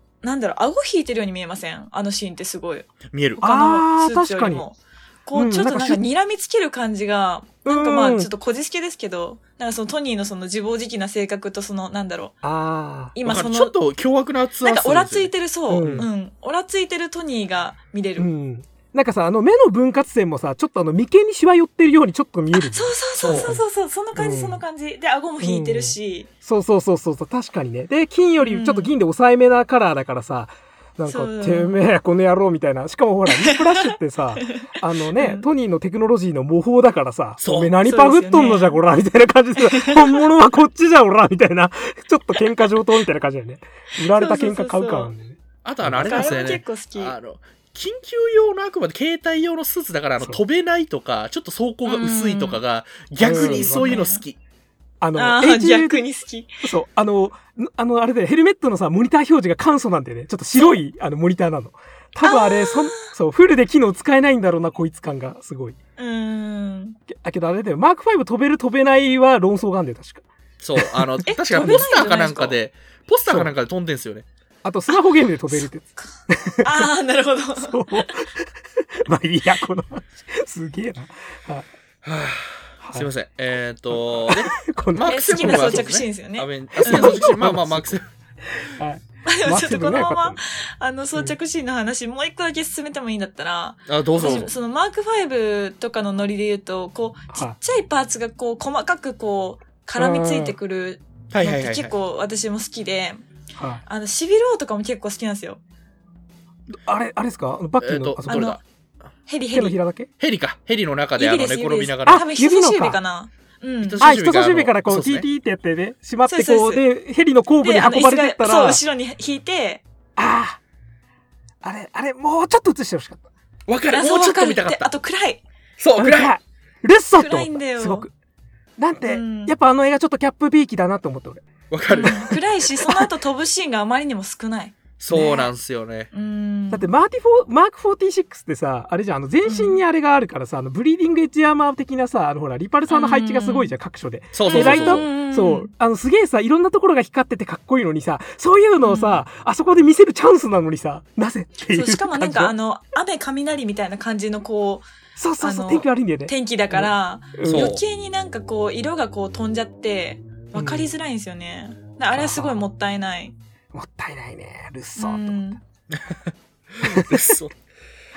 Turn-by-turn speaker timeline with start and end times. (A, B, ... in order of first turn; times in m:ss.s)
0:00.2-0:12.4 A
0:03.1-0:03.4 B
0:03.4-0:04.6 C
0:05.3-0:06.0 C
0:07.6-0:08.3 C
0:12.4-0:13.1 C
0:13.1-0:13.7 A
0:13.2-0:16.1 B
0:14.6-0:18.3 A
0:15.7-0:16.1 C
0:18.2-0:23.6 C
0:22.6-0:26.3 A
0:23.2-0:23.6 B
0:24.1-0:24.6 C
0:25.4-0:46.3 C
0:28.4-0:28.9 A
0:31.1-0:31.8 A
0:33.4-0:33.9 A
0:34.5-0:35.5 A
0:37.4-0:37.7 B
0:37.8-0:38.8 A
0:39.6-0:40.2 A
0:44.1-0:45.1 A
0:45.6-0:54.4 B
0:46.0-0:47.1 A
0:51.8-0:52.6 A
0:53.2-0:54.0 C
0:53.4-0:54.2 A
0:55.0-0:56.0 C
0:55.2-0:56.5 A
0:56.6-1:05.8 C
1:02.2-1:03.1 A
1:06.0-1:07.0 A
1:07.1-1:11.9 C
1:10.6-1:14.3 B
1:11.2-1:12.6 A
1:13.3-1:13.5 C
1:14.6-1:16.8 C
1:16.6-1:18.1 A
1:17.6-1:21.7 C
1:22.0-1:28.1 B
1:22.8-1:23.1 C
1:23.9-1:25.9 C
1:25.0-1:27.2 A
1:26.8-1:30.4 C
1:29.2-1:43.2 A
1:33.9-1:34.5 B
1:37.3-1:37.6 C
1:39.9-1:40.6 C
1:41.3-1:41.9 B
1:43.5-1:43.8 C
1:43.8-1:45.6 A
1:46.7-1:48.5 C
1:47.8-1:48.6 B
1:48.3-1:48.6 A
1:49.3-1:49.8 A
1:49.5-1:50.1 C
1:50.2-1:52.2 B
1:51.2-1:54.0 A
1:52.0-1:53.0 C
1:53.8-1:55.2 B
1:54.0-1:58.8 C
1:56.2-1:56.8 A
1:57.6-1:59.8 A
2:00.2-2:00.6 C
2:01.6-2:03.3 C
2:03.7-2:04.9 B
2:03.9-2:05.4 A
2:05.8-2:06.3 B
2:06.0-2:08.1 C
2:07.1-2:08.1 A
2:08.8-2:11.5 C
2:09.0-2:09.5 A
2:11.7-2:12.4 B
2:11.9-2:15.5 A
2:15.0-2:16.1 B
2:16.1-2:16.9 A
2:16.7-2:32.5 C
2:19.4-2:19.8 A
2:22.9-2:23.7 A
2:24.3-2:25.0 B
2:24.4-2:25.7 A
2:28.8-2:29.2 A
2:31.7-2:34.9 A
2:35.2-2:37.8 C
2:35.4-2:43.3 A
2:37.5-2:37.8 B
2:40.5-2:40.9 C
2:42.1-2:42.7 C
2:43.7-2:45.6 C
2:45.0-2:45.6 A
2:45.9-2:46.2 B
2:46.7-2:47.5 B
2:46.8-2:47.4 C